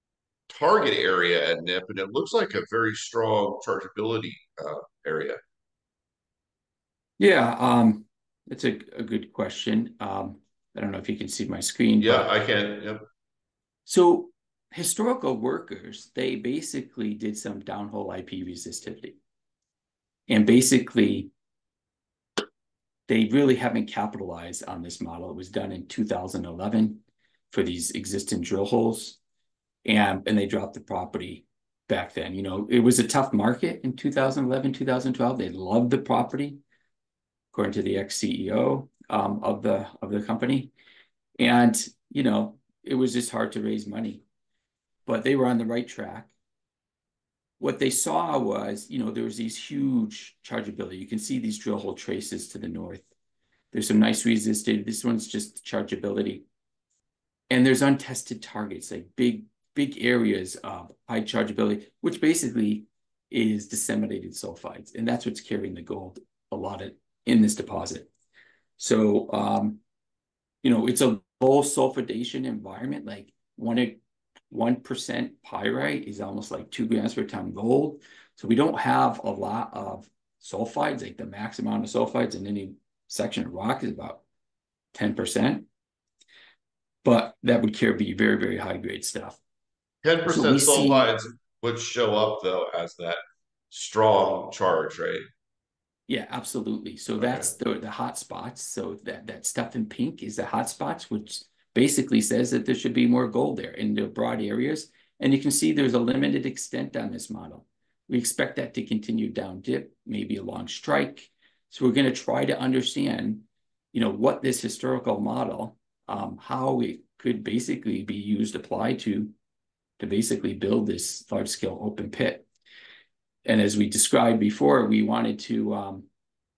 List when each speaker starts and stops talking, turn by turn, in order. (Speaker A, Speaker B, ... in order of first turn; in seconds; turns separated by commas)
Speaker A: 0.5-5.4, Speaker B: 7.2-12.3, Speaker A: 12.0-13.0, Speaker B: 13.8-19.2, Speaker B: 20.3-21.3, Speaker B: 23.1-29.2, Speaker B: 29.8-36.6, Speaker B: 37.5-40.7, Speaker B: 41.4-44.2, Speaker B: 45.0-46.3, Speaker B: 47.6-53.1, Speaker B: 53.7-56.4, Speaker B: 57.5-68.1, Speaker B: 68.8-69.8, Speaker B: 70.6-84.2, Speaker B: 84.9-85.7, Speaker B: 87.0-89.4, Speaker A: 90.0-93.2, Speaker B: 90.3-91.1, Speaker A: 93.7-95.2, Speaker B: 96.1-119.3, Speaker A: 97.2-97.5, Speaker B: 120.0-122.5, Speaker B: 123.4-126.1